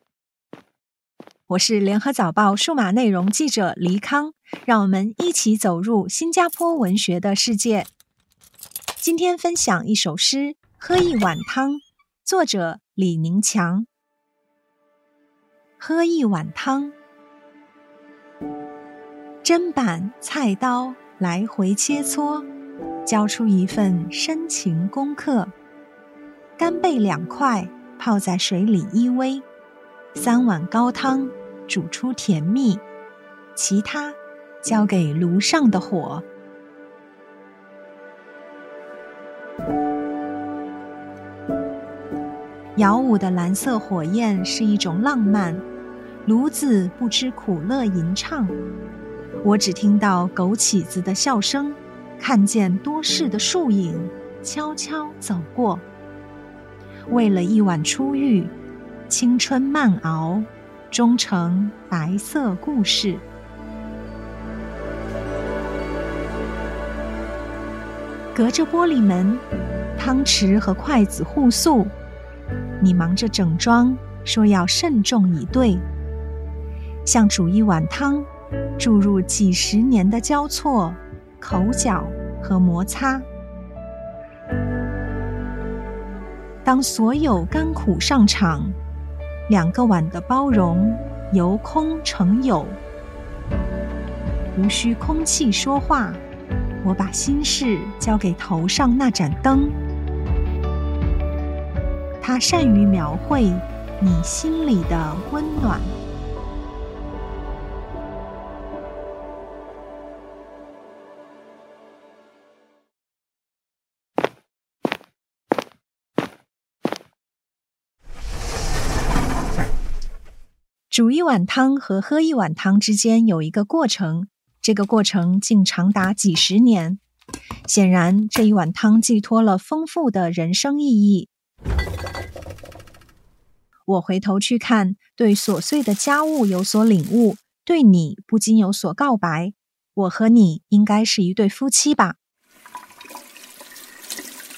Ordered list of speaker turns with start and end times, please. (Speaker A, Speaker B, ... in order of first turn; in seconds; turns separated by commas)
Speaker A: 1.5-7.9, Speaker A: 9.0-13.9, Speaker A: 15.8-16.9, Speaker A: 19.4-22.5, Speaker A: 23.1-25.5, Speaker A: 26.6-29.5, Speaker A: 30.1-32.8, Speaker A: 33.5-36.2, Speaker A: 42.8-45.6, Speaker A: 46.2-48.6, Speaker A: 49.4-55.9, Speaker A: 57.1-58.5, Speaker A: 59.1-63.2, Speaker A: 68.3-69.4, Speaker A: 70.0-71.9, Speaker A: 72.8-75.8, Speaker A: 77.0-78.3, Speaker A: 78.8-83.3, Speaker A: 86.7-88.8, Speaker A: 89.5-92.8, Speaker A: 94.5-96.2, Speaker A: 96.8-99.8, Speaker A: 102.2-106.0, Speaker A: 120.9-127.0, Speaker A: 127.7-131.3, Speaker A: 133.9-142.2